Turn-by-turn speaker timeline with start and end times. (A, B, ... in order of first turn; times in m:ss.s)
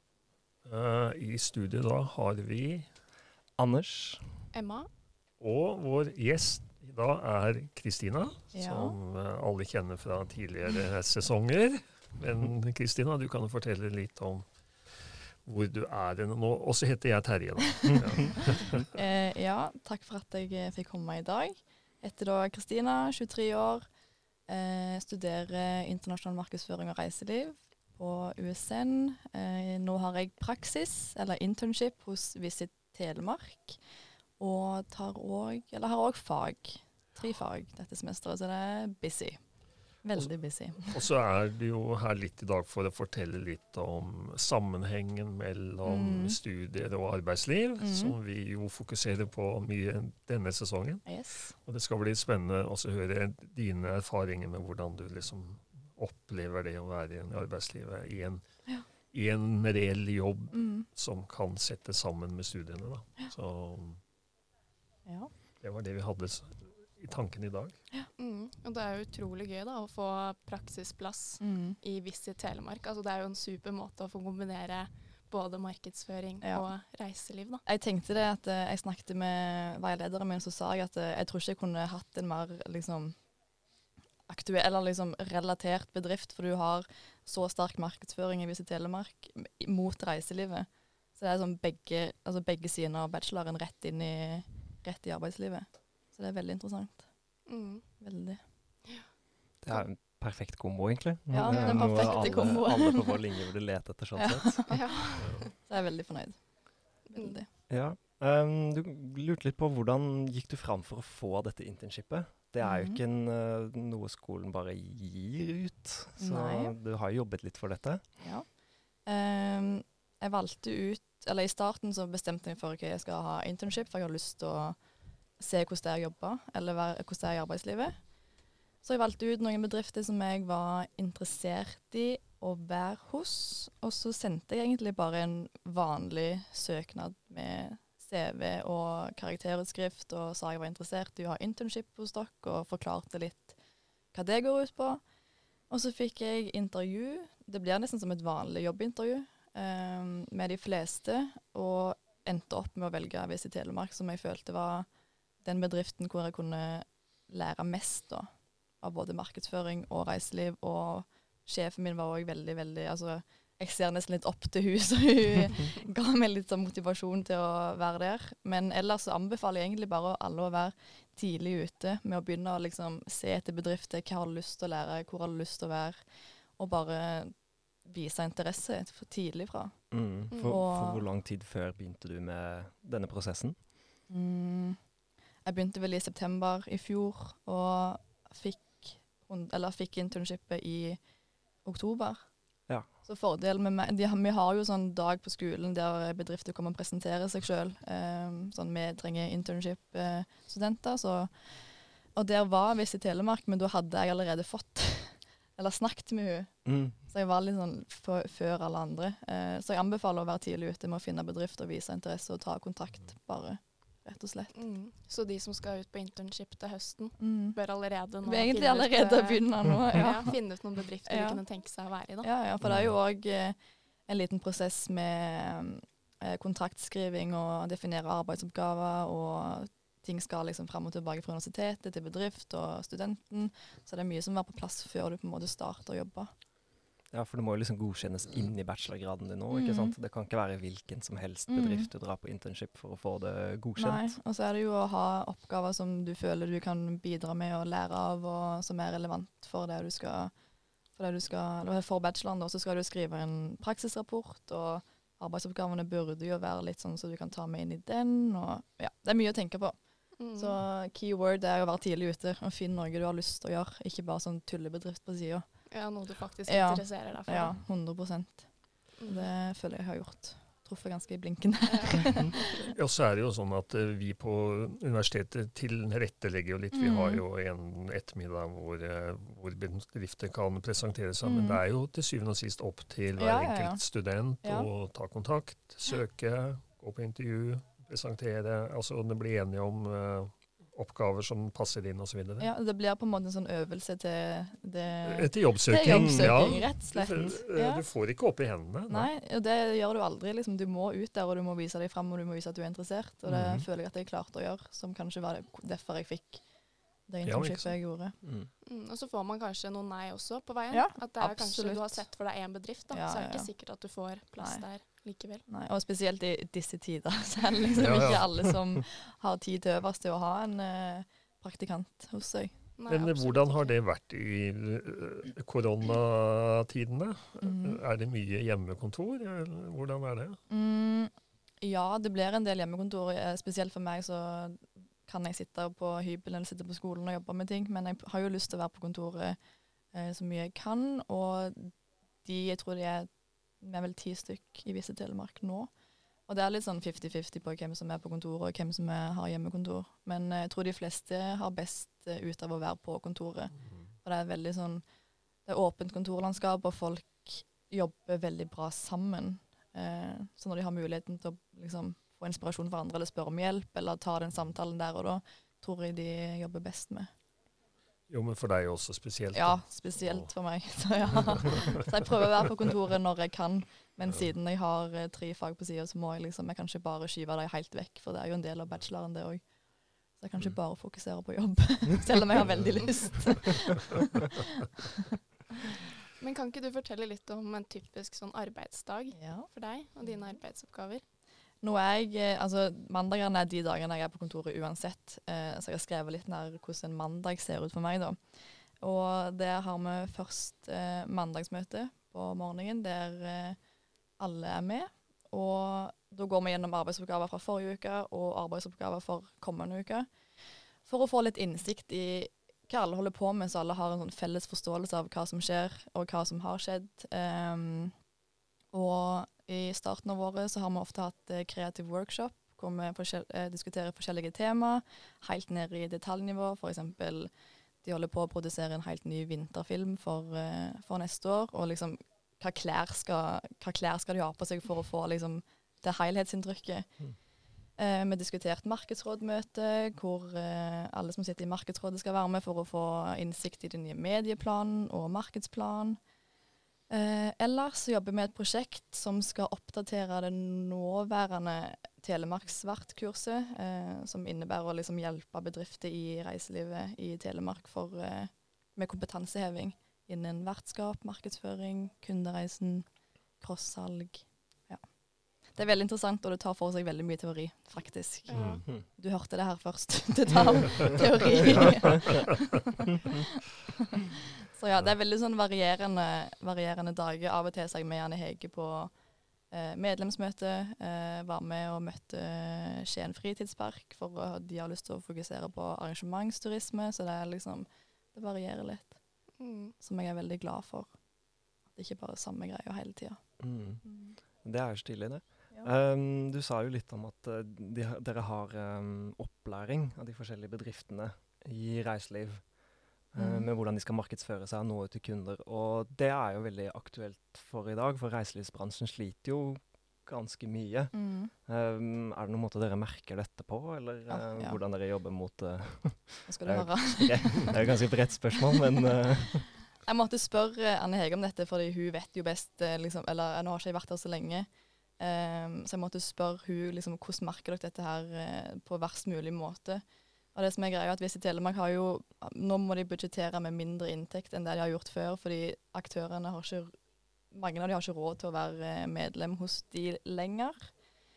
0:00.6-0:02.9 A
0:03.6-0:04.4 B
0:04.5-0:04.9 C
0:05.4-0:18.9 A
0:08.5-0:09.0 D
0:18.9-0:23.9 D
0:24.5-0:33.8 D
0:34.4-0:41.0 D
0:40.2-1:04.0 A
0:45.8-0:46.4 D
0:47.8-0:48.2 D
0:51.1-0:51.6 D
1:00.5-1:00.9 D
1:05.0-1:05.3 D
1:05.6-1:07.8 A
1:08.2-1:17.6 C
1:11.4-1:11.8 D
1:16.4-1:16.7 D
1:17.6-1:23.3 D
1:24.3-1:37.5 D
1:37.5-1:38.0 C
1:38.0-1:38.4 D
1:38.8-1:39.1 C
1:39.6-1:45.0 B
1:41.3-1:43.3 D
1:41.5-1:42.7 C
1:44.2-1:47.5 D
1:44.7-1:45.5 C
1:45.2-1:45.5 A
1:47.7-1:58.3 B
1:52.6-1:53.0 D
1:56.2-1:56.7 D
1:58.2-2:08.3 D
2:08.8-2:23.6 D
2:24.1-2:25.0 D
2:25.6-3:01.0 D
2:59.9-3:03.7 B
3:00.3-3:00.6 C
3:04.1-3:34.6 D
3:26.6-3:27.0 B
3:34.5-3:42.3 C
3:37.2-3:41.5 D
3:42.2-3:56.3 D
3:42.6-3:42.9 B
3:57.1-4:04.2 B
3:59.5-4:00.0 D
4:01.5-4:01.9 D
4:03.8-4:32.5 D
4:20.2-4:20.6 C
4:25.7-4:27.6 C
4:29.0-4:29.3 C
4:31.7-4:32.7 C
4:32.7-4:52.5 A
4:36.7-4:37.2 D
4:41.2-4:41.6 D
4:43.2-4:43.8 D
4:44.4-4:44.7 D
4:52.4-4:57.8 D
4:55.0-4:59.1 A
4:55.8-4:56.6 B
4:58.9-5:08.2 D
5:03.3-5:03.7 A
5:07.2-5:07.8 A
5:08.2-5:08.5 B
5:08.6-5:15.4 C
5:10.7-5:12.2 D
5:12.9-5:13.6 D
5:14.4-5:14.7 D
5:15.4-5:22.6 D
5:17.8-5:18.4 A
5:22.8-5:23.8 C
5:22.9-5:30.4 A
5:27.4-5:27.8 D
5:30.5-5:39.4 D
5:39.9-5:45.7 D
5:46.3-5:54.8 D
5:55.4-6:07.1 D
6:08.1-6:10.3 A
6:09.3-6:24.4 D
6:11.1-6:11.7 A
6:22.8-6:23.4 A
6:26.2-6:31.0 C
6:29.2-6:29.5 D
6:30.0-6:30.4 D
6:31.6-6:43.6 D
6:44.2-6:50.1 D
6:50.8-6:58.0 D
6:58.7-7:17.1 D
7:17.7-7:26.0 D
7:26.9-7:53.1 D
7:48.3-7:48.6 C
7:48.3-7:48.6 A
7:54.6-7:59.0 D
7:59.5-8:09.0 D
8:09.4-8:09.8 C
8:09.8-8:11.0 D
8:11.6-8:14.2 D
8:13.4-8:22.6 B
8:23.1-8:39.5 B
8:23.2-8:23.5 D
8:30.9-8:31.3 D
8:34.1-8:34.6 D
8:36.3-8:37.8 D
8:39.8-8:56.8 D
8:57.3-9:00.8 D